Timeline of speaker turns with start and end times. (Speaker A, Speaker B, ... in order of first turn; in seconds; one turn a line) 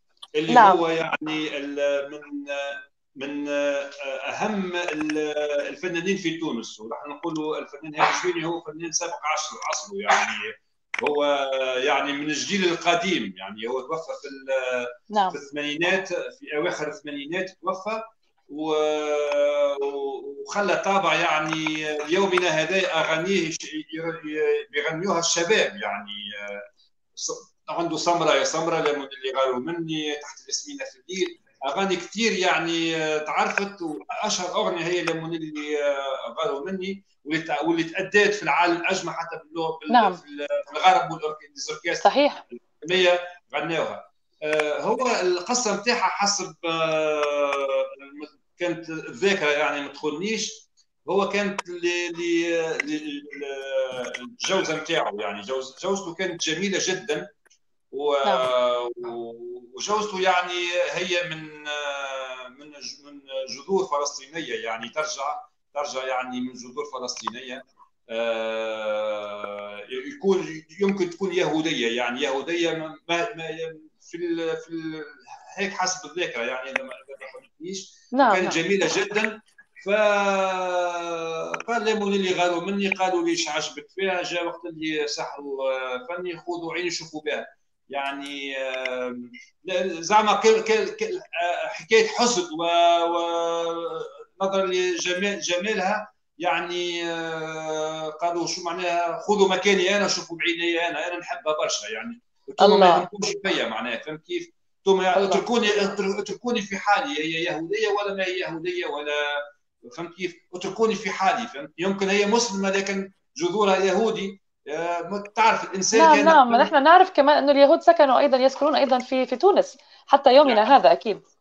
Speaker A: 0.4-26.6
Speaker B: 0.5-0.8
Speaker A: 27.1-57.3
Speaker B: 39.9-40.2
Speaker B: 42.0-42.4
Speaker A: 57.9-116.7
Speaker B: 78.2-78.5
Speaker B: 102.6-103.0
Speaker B: 105.1-105.4
Speaker B: 115.9-121.2
Speaker A: 120.4-120.7